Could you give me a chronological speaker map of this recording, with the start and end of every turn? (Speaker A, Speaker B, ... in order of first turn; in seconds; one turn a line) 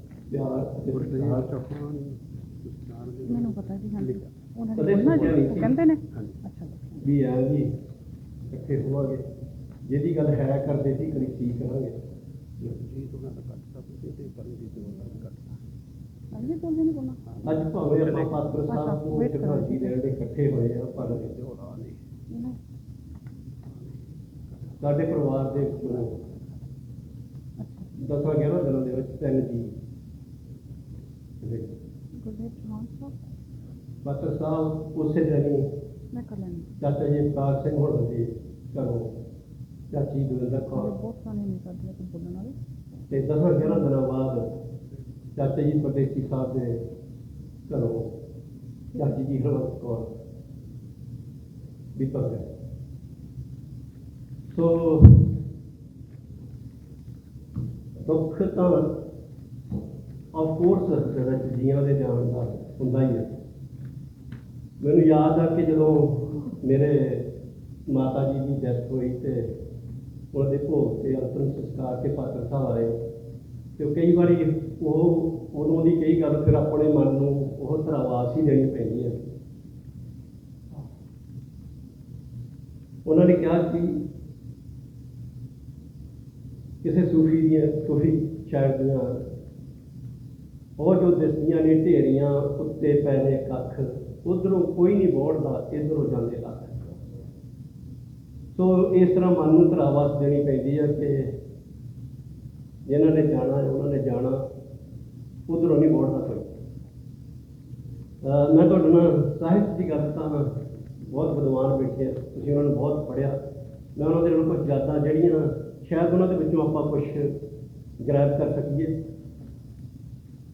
Speaker A: 0.3-1.5
Speaker B: 0.9-4.4
Speaker C: 3.2-7.0
Speaker A: 4.8-5.7
Speaker B: 4.9-5.6
Speaker A: 7.0-7.7
Speaker A: 8.5-9.2
Speaker A: 9.9-12.0
Speaker B: 12.6-15.6
Speaker C: 16.3-17.2
Speaker B: 17.3-18.4
Speaker A: 17.4-21.3
Speaker C: 18.7-20.0
Speaker B: 21.0-22.0
Speaker C: 22.3-22.6
Speaker A: 24.8-26.2
Speaker C: 27.6-27.9
Speaker A: 28.0-29.7
Speaker A: 31.4-31.8
Speaker C: 32.2-33.1
Speaker A: 34.0-35.7
Speaker C: 36.1-36.7
Speaker A: 36.8-39.1
Speaker A: 39.9-41.0
Speaker C: 40.7-42.6
Speaker A: 43.1-44.5
Speaker A: 45.4-46.8
Speaker A: 47.7-48.1
Speaker A: 49.0-50.1
Speaker A: 52.0-52.5
Speaker A: 54.5-55.3
Speaker A: 58.0-58.9
Speaker A: 60.3-63.3
Speaker A: 64.8-67.3
Speaker A: 67.9-69.5
Speaker A: 70.3-73.0
Speaker A: 73.8-79.3
Speaker A: 83.0-84.0
Speaker A: 86.8-89.2
Speaker A: 90.8-97.0
Speaker A: 98.5-101.3
Speaker A: 102.9-104.4
Speaker A: 105.5-106.6
Speaker A: 108.2-113.4
Speaker A: 114.0-117.3
Speaker A: 118.0-119.0